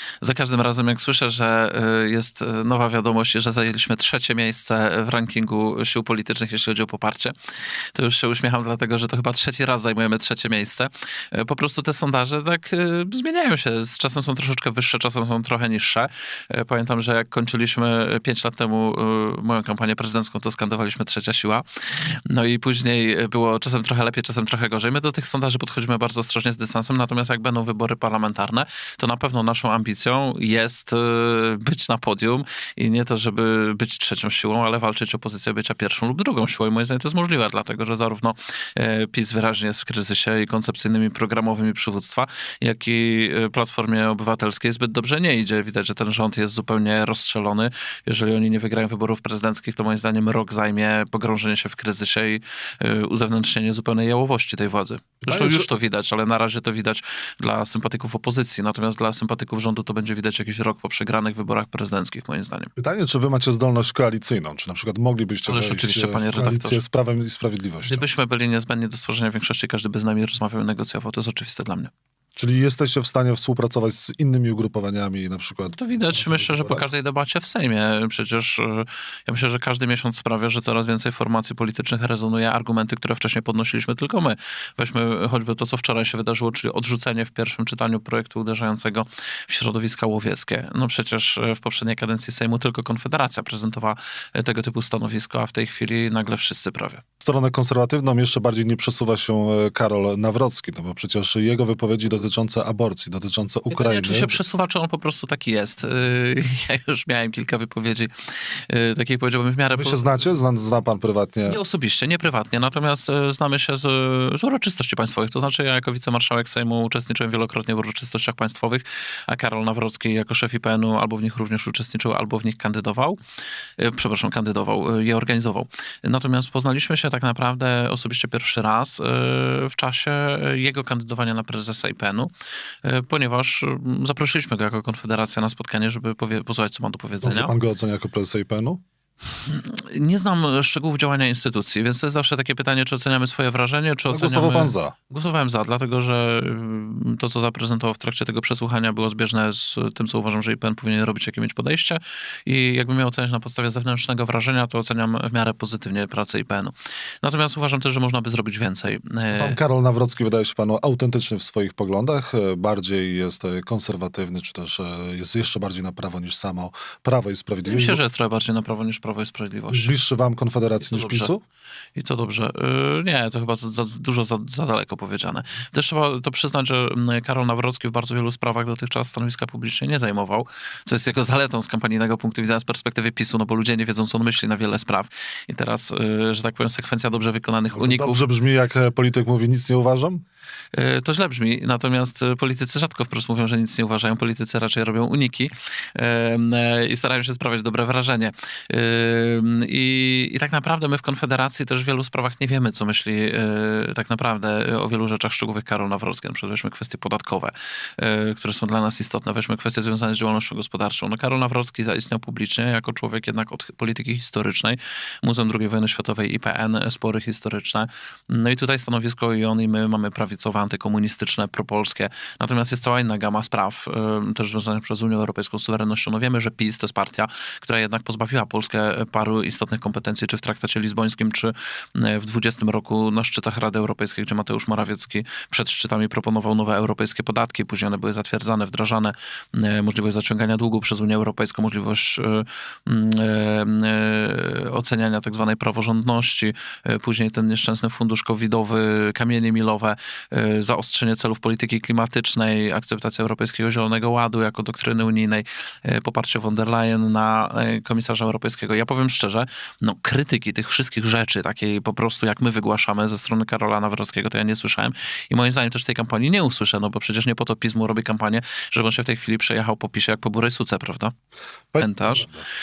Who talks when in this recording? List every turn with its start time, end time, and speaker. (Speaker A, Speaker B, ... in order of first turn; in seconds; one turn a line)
Speaker A: 0.2-7.3
Speaker A: 7.9-62.7
Speaker B: 55.2-55.7
Speaker B: 62.8-68.0
Speaker A: 65.5-66.8
Speaker A: 67.8-71.9
Speaker B: 72.3-76.9
Speaker A: 75.7-97.0
Speaker B: 97.2-104.4
Speaker A: 103.7-110.0
Speaker B: 109.7-111.6
Speaker A: 111.5-123.2
Speaker A: 123.8-132.3
Speaker A: 132.8-137.5
Speaker B: 137.2-138.8
Speaker A: 139.4-159.6
Speaker B: 144.1-144.9
Speaker B: 159.3-168.0
Speaker A: 167.7-169.9
Speaker B: 169.7-171.4
Speaker A: 170.8-171.3
Speaker A: 171.9-188.2
Speaker B: 187.7-190.2
Speaker A: 190.7-271.1
Speaker B: 271.7-272.4
Speaker A: 271.8-272.3